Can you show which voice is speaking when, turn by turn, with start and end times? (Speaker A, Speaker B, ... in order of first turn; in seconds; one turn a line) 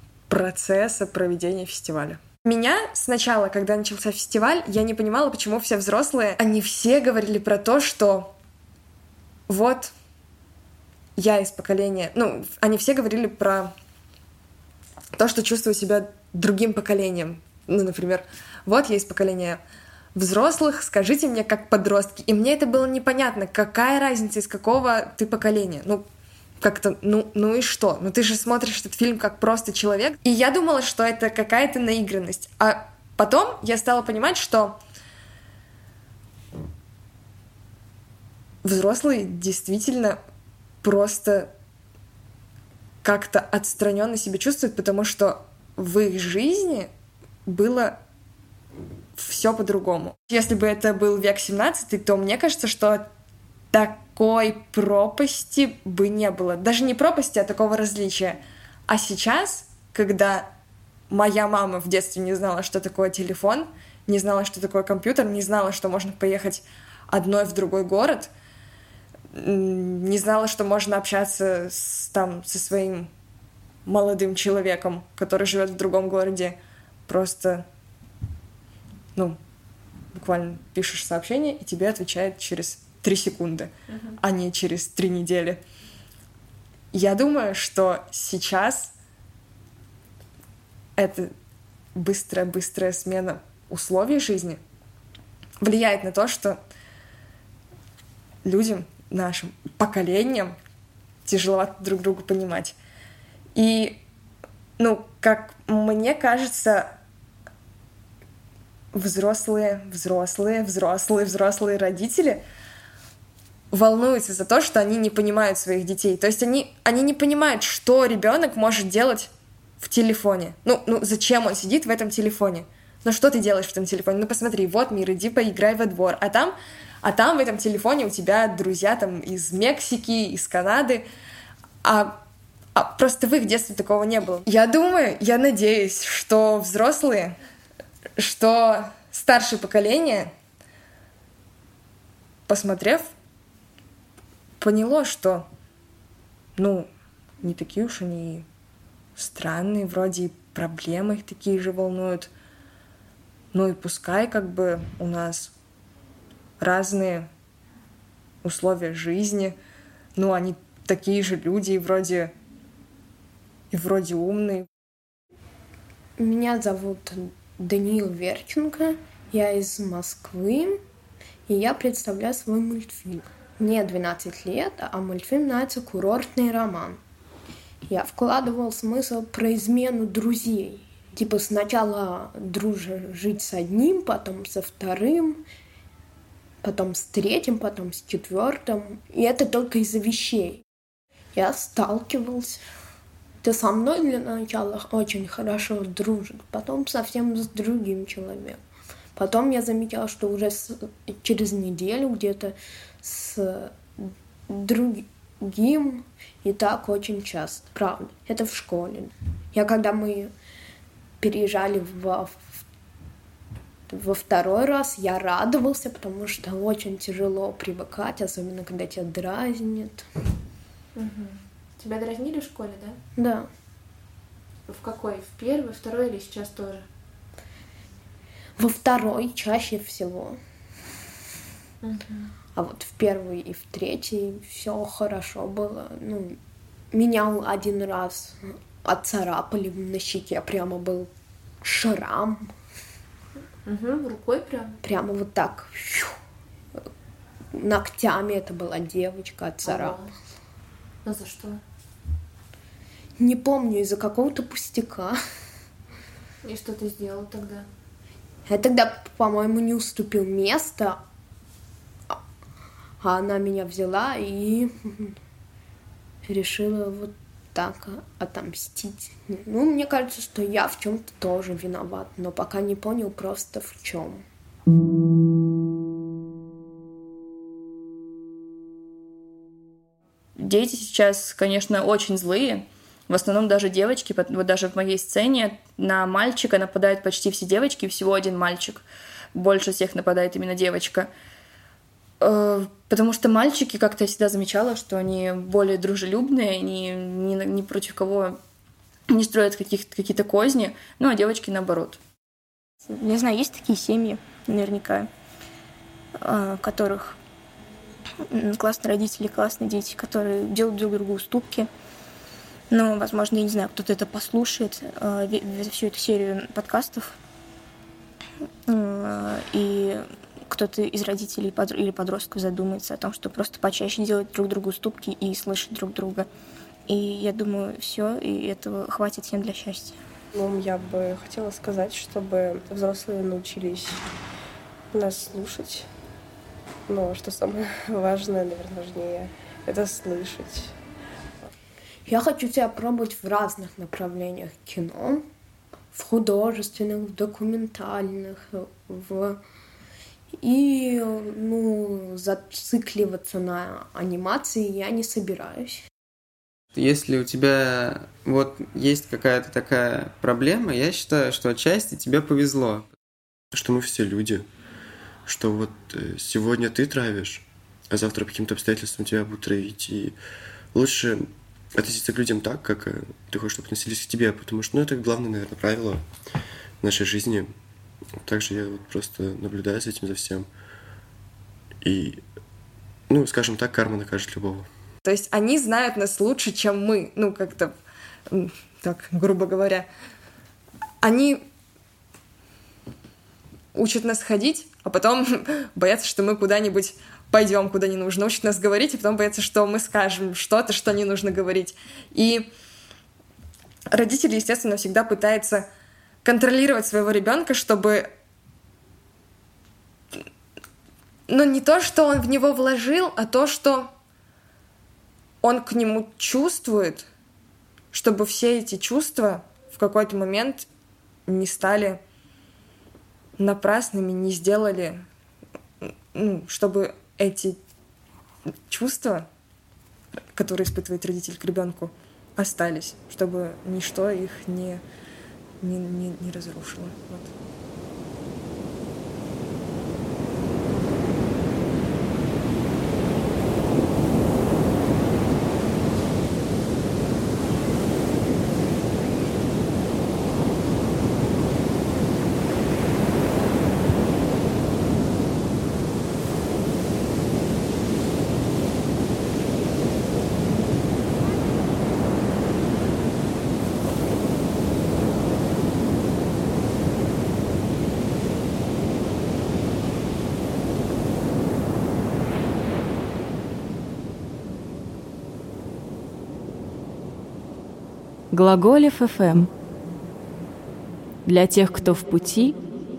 Speaker A: 0.3-8.3
Speaker A: 9.5-9.9
Speaker A: 11.2-13.7
Speaker A: 15.1-19.6
Speaker A: 20.1-26.1
Speaker A: 26.6-34.8
Speaker A: 38.6-40.2
Speaker A: 40.8-41.5
Speaker A: 43.0-46.9
Speaker A: 47.5-48.0
Speaker A: 49.1-53.0
Speaker A: 53.7-60.5
Speaker A: 61.1-68.3
Speaker A: 69.3-73.1
Speaker A: 73.8-77.7
Speaker A: 80.1-85.6
Speaker A: 86.9-88.9
Speaker A: 91.0-91.3
Speaker A: 91.9-94.6
Speaker A: 95.6-96.6
Speaker A: 98.4-100.5
Speaker A: 101.2-102.8
Speaker A: 103.5-104.0
Speaker A: 104.8-106.9
Speaker A: 108.9-112.4
Speaker A: 113.7-131.0
Speaker A: 131.8-132.2
Speaker A: 132.7-137.3
Speaker A: 138.2-140.3
Speaker A: 142.5-143.1
Speaker A: 144.6-145.5
Speaker A: 146.6-146.9
Speaker A: 147.4-148.4
Speaker A: 149.2-152.3
Speaker A: 153.5-155.5
Speaker A: 156.6-157.3
Speaker A: 158.4-159.5
Speaker A: 160.2-162.3
Speaker A: 163.7-164.7
Speaker B: 166.2-170.8
Speaker B: 171.5-177.0
Speaker B: 177.9-185.4
Speaker B: 186.6-190.6
Speaker B: 191.3-192.6
Speaker B: 193.4-198.6
Speaker B: 199.2-210.3
Speaker B: 211.2-212.6
Speaker B: 213.9-220.1
Speaker C: 220.9-223.0
Speaker B: 223.2-223.5
Speaker C: 224.7-226.8
Speaker B: 228.6-230.4
Speaker C: 231.8-232.3
Speaker B: 232.5-236.4
Speaker B: 236.9-241.1
Speaker B: 241.6-242.5
Speaker C: 243.7-244.8
Speaker B: 244.8-246.1
Speaker B: 247.5-250.0
Speaker C: 249.6-250.1
Speaker C: 251.0-251.6
Speaker B: 253.2-255.2
Speaker C: 256.4-257.6
Speaker B: 258.4-261.0
Speaker B: 263.0-265.1
Speaker B: 266.3-274.2
Speaker D: 280.4-291.1
Speaker D: 292.2-298.4
Speaker D: 299.1-302.0
Speaker E: 302.8-305.1
Speaker E: 306.2-307.2
Speaker E: 308.3-311.7
Speaker E: 312.7-317.2
Speaker E: 318.7-326.3
Speaker E: 326.9-330.0
Speaker F: 330.3-334.0
Speaker F: 334.9-335.9
Speaker F: 336.9-340.7
Speaker B: 342.1-345.2
Speaker B: 345.9-349.4
Speaker B: 350.4-355.8
Speaker G: 356.7-362.9
Speaker H: 363.5-364.4
Speaker H: 365.2-370.2
Speaker H: 370.7-376.0
Speaker H: 376.8-377.5
Speaker H: 378.2-380.5
Speaker H: 381.8-382.2
Speaker H: 383.1-384.7
Speaker A: 385.0-387.8
Speaker A: 388.3-389.9
Speaker A: 391.0-391.4
Speaker A: 393.7-402.5
Speaker A: 403.9-405.7
Speaker A: 406.2-408.1
Speaker A: 411.3-413.9
Speaker A: 415.4-417.1
Speaker A: 417.9-420.7
Speaker A: 421.3-422.0
Speaker A: 423.4-425.0
Speaker A: 425.8-427.6
Speaker A: 428.7-429.3
Speaker A: 430.3-434.8
Speaker A: 435.6-437.3
Speaker I: 478.3-479.5
Speaker I: 481.2-482.6